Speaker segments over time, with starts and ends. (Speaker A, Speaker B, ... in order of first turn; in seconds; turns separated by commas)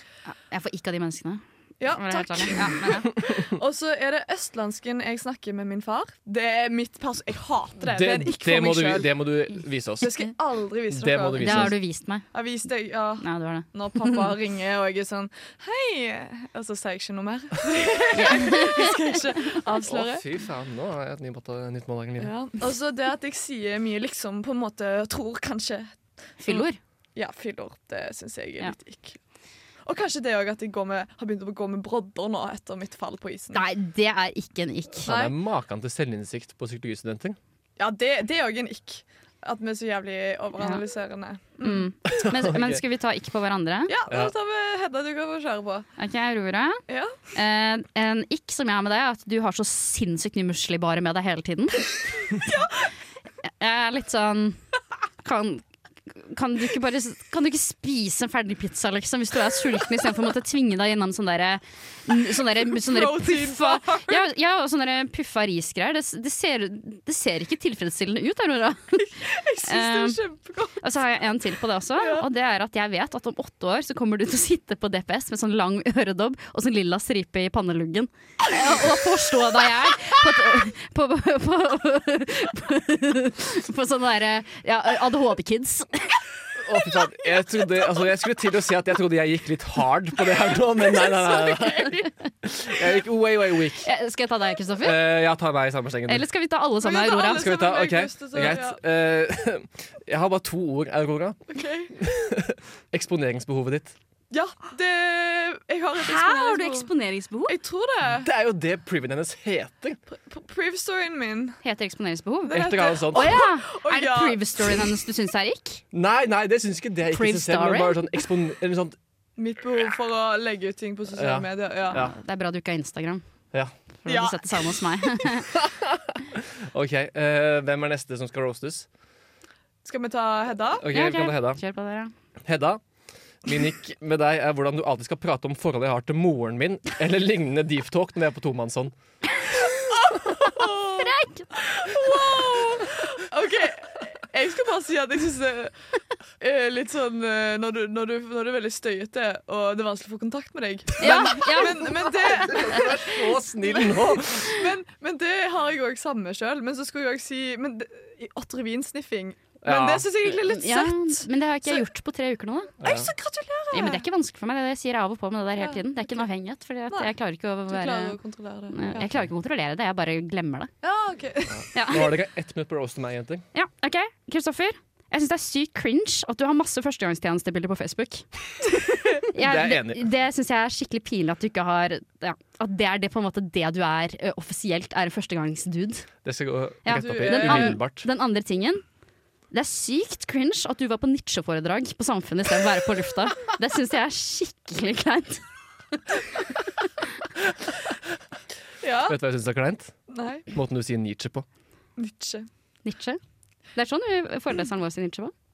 Speaker A: 0.2-3.1, Speaker B: 1.8-9.2, Speaker C: 7.8-10.2, Speaker B: 10.0-11.7, Speaker C: 10.9-11.7, Speaker A: 11.4-12.2, Speaker B: 12.3-20.2, Speaker A: 13.2-14.2, Speaker A: 18.1-19.0, Speaker C: 19.9-22.3, Speaker B: 22.2-29.2, Speaker A: 26.4-26.8, Speaker B: 29.9-33.6, Speaker A: 33.5-35.1, Speaker C: 35.0-37.4, Speaker B: 35.0-35.3, Speaker B: 37.8-41.9, Speaker A: 41.6-43.9, Speaker C: 42.1-42.8, Speaker B: 43.9-45.9, Speaker C: 44.1-44.3, Speaker A: 46.0-46.8, Speaker B: 46.9-47.1, Speaker A: 47.3-51.9, Speaker A: 53.6-54.6, Speaker A: 55.2-70.2, Speaker B: 62.8-64.2, Speaker B: 69.0-70.9, Speaker A: 70.8-86.2, Speaker B: 72.0-72.3, Speaker C: 86.6-93.9, Speaker A: 91.0-92.3, Speaker A: 93.8-95.0, Speaker C: 94.8-96.3, Speaker A: 96.1-97.5, Speaker B: 96.8-98.8, Speaker C: 97.2-101.4, Speaker B: 101.5-102.1, Speaker C: 102.0-104.0, Speaker B: 104.3-106.9, Speaker A: 106.0-107.5, Speaker B: 107.5-108.3, Speaker C: 108.1-110.0, Speaker B: 110.3-111.6, Speaker A: 111.6-115.8, Speaker B: 112.5-114.9, Speaker C: 112.5-113.5, Speaker C: 115.9-119.0, Speaker A: 117.1-118.1, Speaker B: 119.4-122.0, Speaker C: 121.1-122.1, Speaker A: 121.9-123.2, Speaker A: 124.0-125.5, Speaker B: 124.0-125.2, Speaker C: 125.5-128.9, Speaker B: 129.8-130.9, Speaker C: 130.8-131.6, Speaker A: 130.9-132.1, Speaker C: 132.4-132.8, Speaker C: 133.4-138.9, Speaker B: 139.9-145.7, Speaker A: 140.7-141.4, Speaker B: 146.4-161.8, Speaker A: 151.0-151.9, Speaker C: 152.2-154.6, Speaker C: 159.6-160.4, Speaker A: 160.4-162.7, Speaker C: 162.8-163.1, Speaker B: 162.8-164.0, Speaker A: 163.7-168.2, Speaker B: 165.6-166.3, Speaker B: 167.7-169.1, Speaker A: 168.7-170.7, Speaker B: 170.8-171.7, Speaker C: 171.5-173.4, Speaker A: 171.7-172.1, Speaker A: 173.5-178.3, Speaker A: 179.3-186.1, Speaker C: 179.3-180.0, Speaker C: 186.2-188.1, Speaker A: 186.8-188.8, Speaker B: 186.9-187.8, Speaker A: 189.5-195.4, Speaker B: 198.8-199.2, Speaker C: 199.1-199.9, Speaker B: 200.1-200.5, Speaker C: 200.5-201.4, Speaker B: 202.0-202.5, Speaker A: 202.8-203.2, Speaker A: 203.7-205.3